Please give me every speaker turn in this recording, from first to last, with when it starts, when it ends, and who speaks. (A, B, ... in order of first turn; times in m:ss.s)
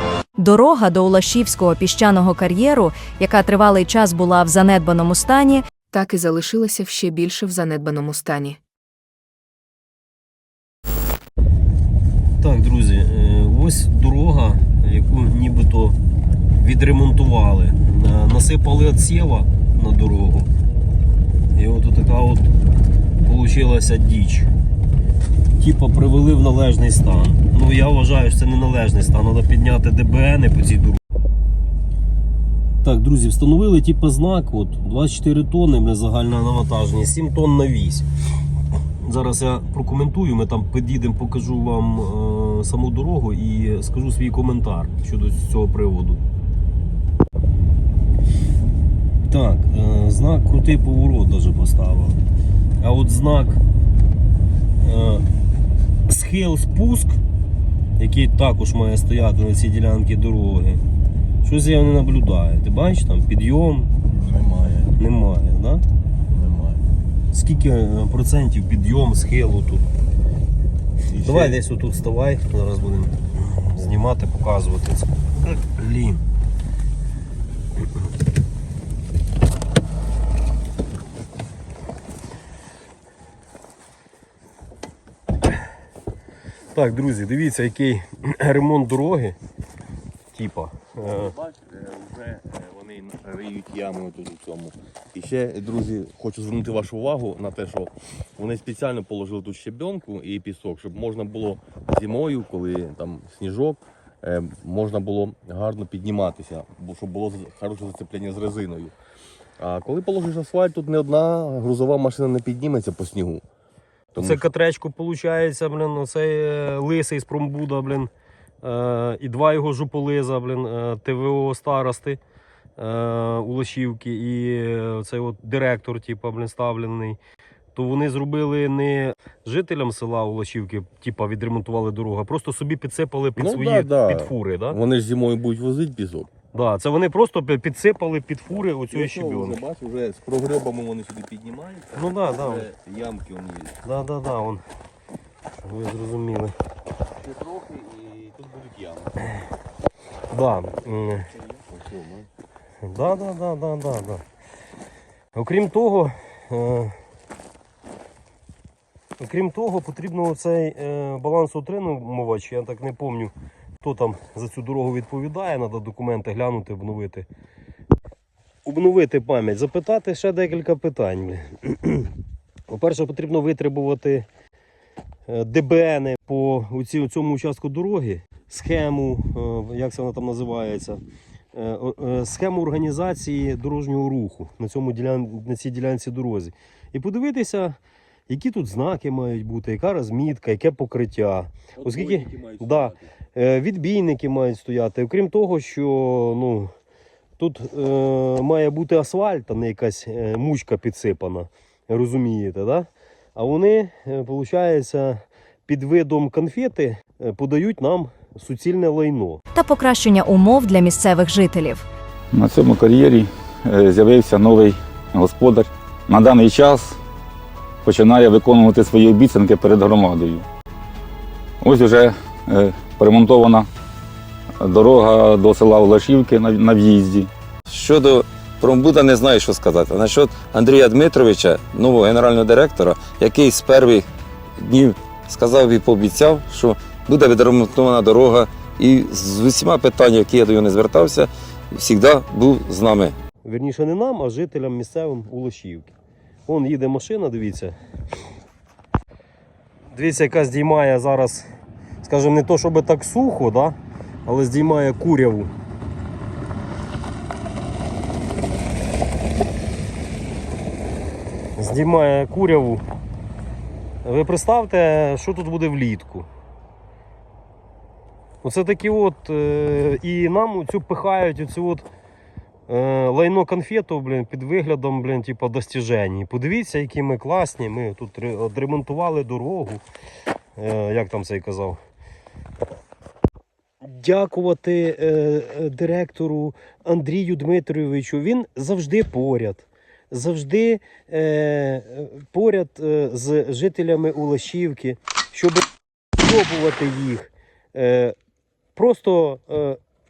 0:00.4-0:05.6 A
0:05.9-0:08.6 B
0:12.4-0:16.0 C
0:16.6-0:20.5 C
0:21.5-0:22.5 C
0:23.2-0:24.5 C
0:25.6-0:31.0 C
0:32.8-0:38.1 C
0:39.0-0:46.2 C
0:49.3-0:52.2 C
0:52.8-0:53.6 C
0:54.8-0:55.3 C
0:56.1-0:57.2 C
0:58.0-1:00.8 C
1:01.4-1:03.9 C
1:04.1-1:05.0 D
1:05.0-1:05.8 C
1:06.3-1:06.9 D
1:07.3-1:09.9 C
1:11.1-1:11.6 D
1:11.2-1:16.2 C
1:26.7-1:29.4 C
1:30.3-1:31.3 C
1:31.1-1:49.0 D
1:49.6-1:53.4 D
1:54.2-1:54.4 D
1:54.2-1:58.1 C
1:58.6-2:02.2 C
2:02.8-2:07.2 C
2:07.8-2:14.8 C
2:13.4-2:16.3 D
2:16.5-2:19.6 C
2:18.9-2:23.8 D
2:22.0-2:22.7 C
2:23.8-2:24.6 C
2:25.6-2:26.6 C
2:27.2-2:29.1 D
2:30.3-2:31.3 C
2:31.7-2:32.3 D
2:32.8-2:34.2 C
2:35.4-2:37.0 C
2:39.2-2:47.3 C
2:48.6-2:52.1 C
2:52.7-2:54.3 C
2:55.3-3:01.0 C
3:01.5-3:16.7 C
3:11.8-3:13.1 D
3:17.4-3:29.4 C
3:29.5-3:31.8 A
3:32.3-3:37.0 E
3:37.8-3:40.5 E
3:41.6-3:43.7 E
3:44.6-3:47.3 E
3:47.7-3:54.1 F
3:54.6-4:03.2 F
4:03.4-4:05.9 C
4:06.5-4:07.8 C
4:09.9-4:11.5 C
4:12.0-4:15.5 C
4:21.6-4:22.8 C
4:24.0-4:26.3 C
4:28.4-4:31.9 C
4:32.7-4:39.8 C
4:40.6-4:41.8 C
4:43.8-4:55.6 C
4:56.2-4:58.2 C
4:58.8-4:59.8 C